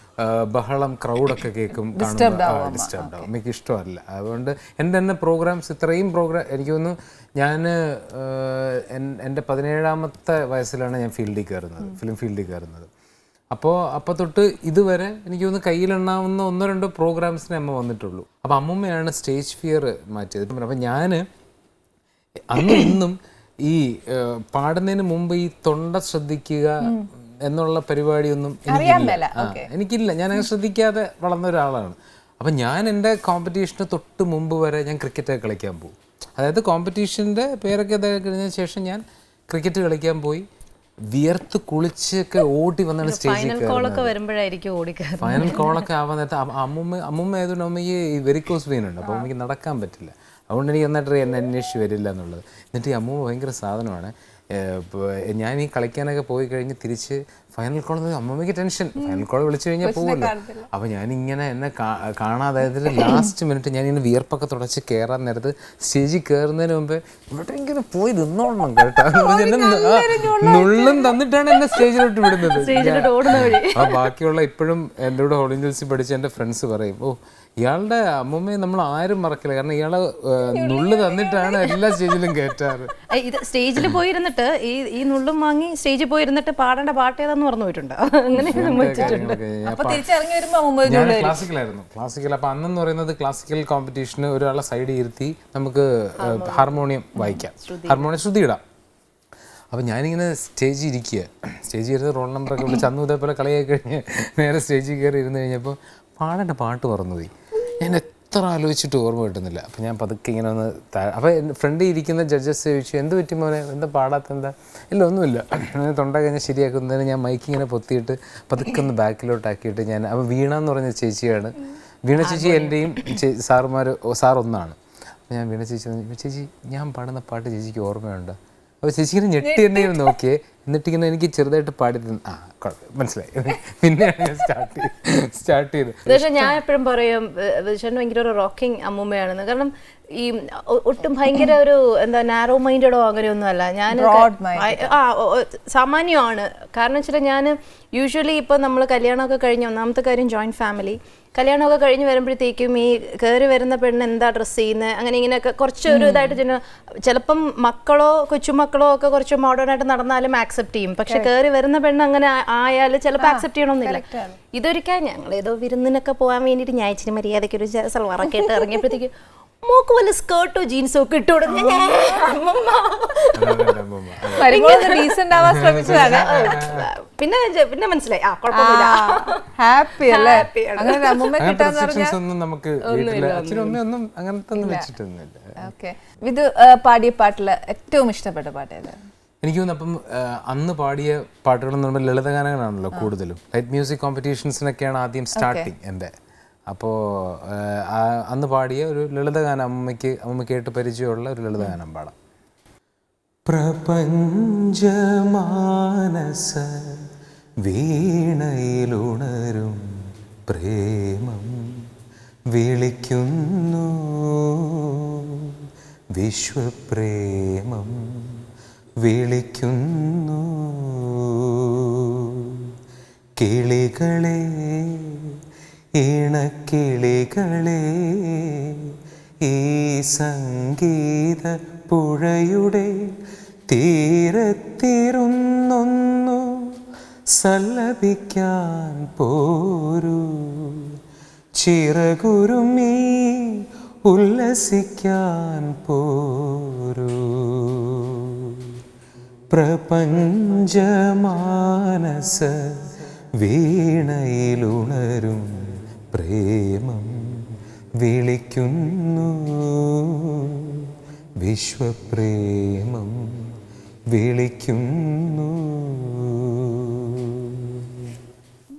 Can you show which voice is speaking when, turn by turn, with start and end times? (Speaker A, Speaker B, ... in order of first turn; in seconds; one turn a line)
Speaker A: 0.2-12.9
Speaker B: 1.9-3.3
Speaker A: 13.5-21.2
Speaker A: 22.5-26.9
Speaker B: 26.8-27.1
Speaker A: 27.4-40.5
Speaker B: 28.7-29.7
Speaker A: 41.1-44.1
Speaker C: 43.0-45.8
Speaker A: 45.2-82.9
Speaker B: 49.0-49.3
Speaker B: 59.0-59.2
Speaker B: 59.8-60.7
Speaker B: 69.1-71.2
Speaker C: 72.5-74.0
Speaker B: 80.5-82.0
Speaker C: 83.1-89.4
Speaker A: 88.4-90.0
Speaker B: 88.5-91.4
Speaker A: 90.8-98.6
Speaker C: 96.2-96.8
Speaker C: 97.6-98.1
Speaker A: 99.7-124.8
Speaker B: 122.2-123.2
Speaker A: 125.3-136.6
Speaker B: 129.4-130.1
Speaker C: 136.1-169.1
Speaker B: 143.9-144.9
Speaker B: 155.9-156.4
Speaker B: 161.1-161.3
Speaker B: 163.2-164.4
Speaker B: 168.3-168.6
Speaker C: 169.6-173.7
Speaker B: 171.5-172.2
Speaker A: 173.3-174.5
Speaker B: 174.3-176.4
Speaker C: 174.4-175.1
Speaker A: 175.3-176.9
Speaker C: 175.8-179.4
Speaker B: 178.5-182.2
Speaker C: 180.1-181.3
Speaker A: 181.4-185.6
Speaker C: 182.8-183.8
Speaker B: 184.5-184.9
Speaker B: 185.6-189.0
Speaker A: 189.4-196.1
Speaker B: 195.3-195.7
Speaker A: 196.7-202.1
Speaker A: 203.5-207.0
Speaker A: 207.7-209.8
Speaker A: 210.5-211.7
Speaker A: 212.5-215.6
Speaker A: 216.2-218.4
Speaker A: 219.0-222.7
Speaker A: 223.4-225.3
Speaker A: 226.0-228.8
Speaker A: 229.4-232.9
Speaker A: 233.7-236.5
Speaker A: 237.4-240.9
Speaker A: 241.6-248.7
Speaker A: 249.5-252.5
Speaker A: 253.4-257.4
Speaker A: 258.0-260.9
Speaker A: 261.4-263.5
Speaker A: 264.1-268.1